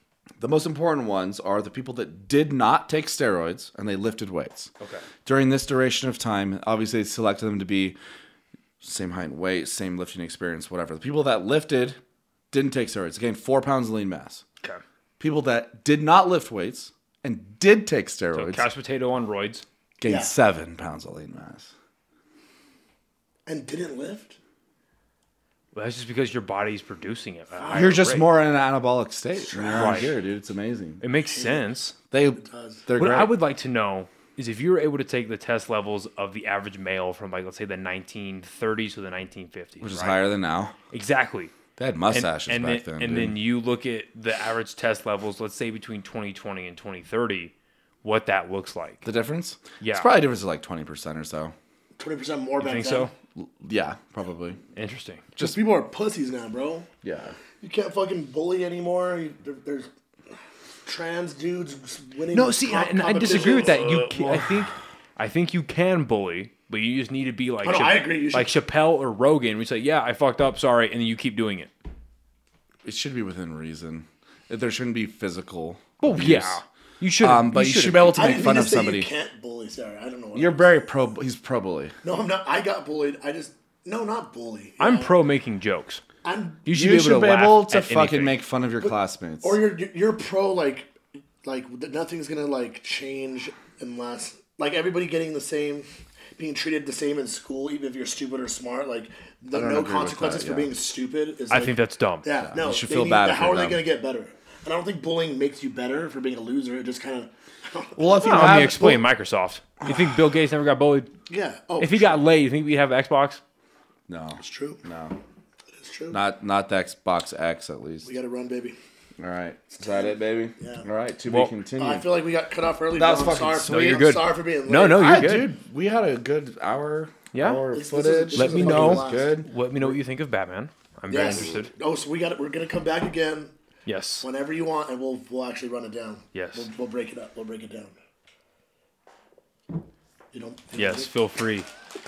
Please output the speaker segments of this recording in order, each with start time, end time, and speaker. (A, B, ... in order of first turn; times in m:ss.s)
0:00.4-0:04.7 A
0:04.8-0:05.1 B
0:05.2-0:08.0 A
0:08.8-0:12.0 A
0:12.5-0:14.4 A
0:15.2-0:18.6 A
0:18.3-0:19.6 B
0:20.0-0:21.7 A
0:20.1-0:20.3 C
0:23.5-0:24.4 C
0:25.7-0:28.3 B
0:27.6-0:28.0 C
0:27.7-0:31.0 A
0:29.5-0:30.0 C
0:29.7-0:30.1 B
0:31.0-0:32.0 B
0:31.3-0:31.7 C
0:32.1-0:33.4 A
0:32.4-0:32.8 C
0:33.0-0:40.2 B
0:39.8-0:40.8 A
0:40.9-0:41.5 B
0:41.8-0:43.4 A
0:42.1-0:49.1 B
0:49.0-0:51.5 A
0:49.8-0:50.1 B
0:52.0-0:53.1 C
0:52.6-0:53.1 B
0:53.4-0:54.6 A
0:54.8-0:55.2 B
0:55.4-0:56.9 C
0:57.0-0:57.4 A
0:57.6-0:59.9 C
1:00.9-1:04.6 C
1:02.3-1:11.7 B
1:07.6-1:08.5 C
1:12.8-1:16.6 A
1:16.0-1:18.2 B
1:17.2-1:19.1 A
1:18.1-1:20.7 C
1:20.3-1:22.0 A
1:22.0-1:25.1 C
1:24.8-1:26.0 B
1:26.2-1:26.6 C
1:26.7-1:28.4 B
1:26.7-1:29.6 A
1:29.4-1:30.9 C
1:31.4-1:48.8 C
1:39.5-1:40.7 A
1:41.5-1:42.3 B
1:42.4-1:43.8 A
1:48.0-1:49.0 A
1:48.2-1:51.1 B
1:51.3-1:52.2 C
1:51.8-1:53.4 B
1:54.1-1:55.2 A
1:54.4-1:54.8 C
1:55.8-1:56.2 C
1:56.1-1:58.1 A
1:58.0-1:58.8 C
1:59.2-2:02.1 A
1:59.7-2:00.9 C
2:01.8-2:05.3 C
2:02.9-2:04.1 A
2:03.6-2:05.5 B
2:05.0-2:09.5 A
2:07.3-2:07.6 B
2:07.7-2:09.5 C
2:08.3-2:11.7 B
2:11.1-2:13.5 C
2:13.9-2:14.3 B
2:14.2-2:18.0 C
2:16.3-2:16.7 B
2:20.3-2:21.1 C
2:20.8-2:21.7 B